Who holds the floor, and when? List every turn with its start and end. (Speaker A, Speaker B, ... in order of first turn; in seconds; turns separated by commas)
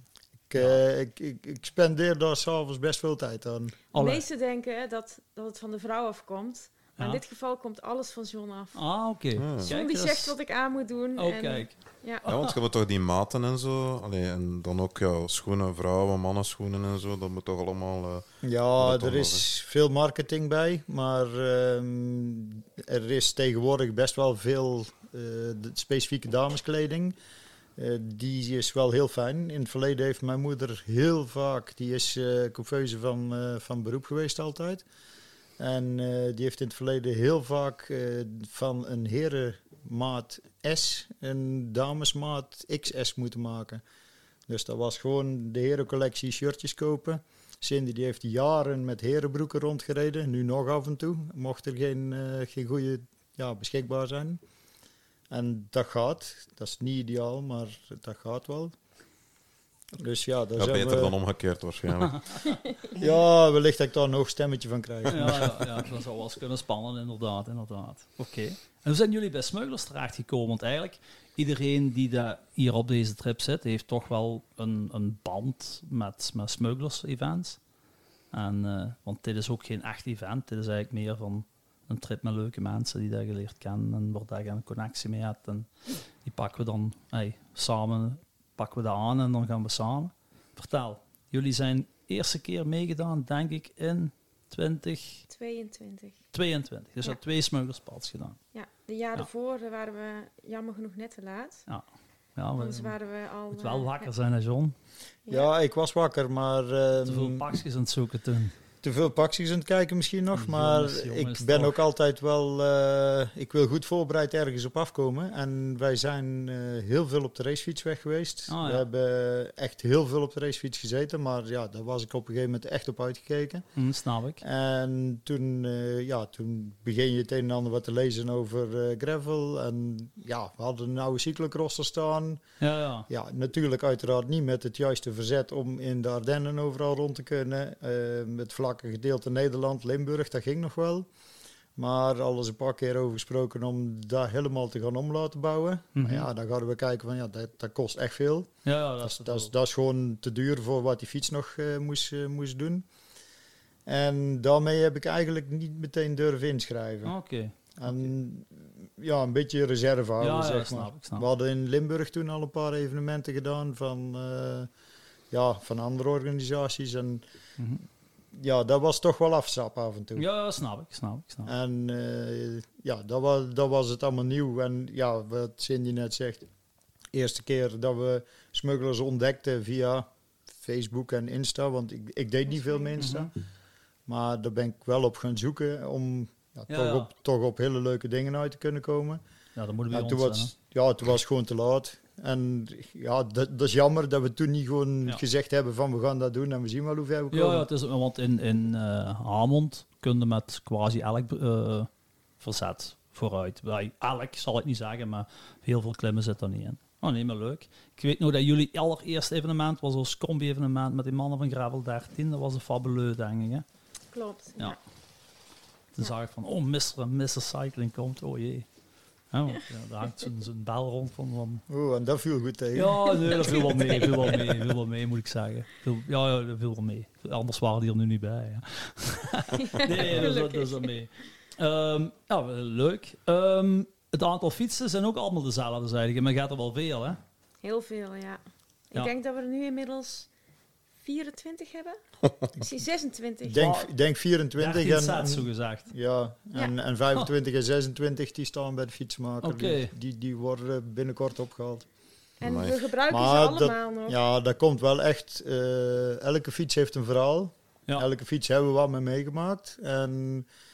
Speaker A: 0.5-3.8, Speaker B: 3.9-4.2, Speaker C: 3.9-8.8, Speaker B: 8.7-10.3, Speaker D: 9.3-9.7, Speaker C: 9.6-12.3, Speaker B: 11.2-11.7, Speaker B: 12.2-12.5, Speaker D: 12.3-18.2, Speaker A: 18.4-27.1, Speaker D: 18.8-19.4, Speaker A: 27.8-34.8, Speaker A: 35.6-43.8, Speaker A: 44.5-54.4, Speaker A: 55.3-58.7, Speaker A: 59.9-61.1, Speaker D: 60.5-62.4, Speaker A: 62.9-65.9, Speaker B: 65.1-77.6, Speaker B: 78.3-85.7, Speaker B: 86.2-95.2, Speaker C: 95.3-96.2, Speaker B: 96.3-98.4, Speaker C: 98.5-101.6, Speaker B: 102.3-103.0, Speaker C: 102.6-103.9, Speaker B: 103.5-104.7, Speaker A: 105.3-107.5, Speaker B: 107.0-108.5, Speaker A: 108.8-123.6, Speaker B: 110.3-111.8, Speaker B: 118.5-118.9, Speaker B: 123.8-124.4, Speaker A: 124.4-132.4, Speaker B: 132.6-133.1, Speaker A: 133.1-141.1, Speaker A: 141.8-148.5, Speaker B: 145.9-146.3, Speaker B: 148.6-149.5, Speaker A: 149.0-152.8, Speaker A: 153.8-157.2, Speaker B: 157.0-158.1, Speaker A: 157.8-164.7, Speaker B: 160.2-161.3, Speaker A: 165.3-167.2, Speaker B: 167.6-167.8, Speaker A: 168.3-170.3, Speaker B: 170.2-171.5, Speaker A: 171.4-176.4, Speaker A: 177.1-183.3, Speaker B: 183.0-183.3, Speaker A: 184.1-189.2, Speaker B: 186.7-187.1, Speaker B: 189.6-190.5, Speaker A: 189.9-197.7, Speaker B: 197.3-213.6, Speaker C: 214.1-214.8, Speaker B: 215.9-218.7, Speaker B: 219.3-221.6, Speaker A: 221.7-223.6, Speaker B: 222.7-237.2, Speaker C: 223.4-224.4, Speaker C: 229.6-230.9, Speaker C: 237.6-238.4, Speaker C: 238.9-240.3, Speaker C: 241.0-241.9, Speaker D: 242.2-242.5, Speaker C: 242.6-243.8, Speaker A: 243.4-251.9, Speaker B: 244.6-245.9, Speaker B: 249.4-249.9, Speaker C: 252.4-254.2, Speaker D: 252.4-252.8, Speaker A: 253.1-260.5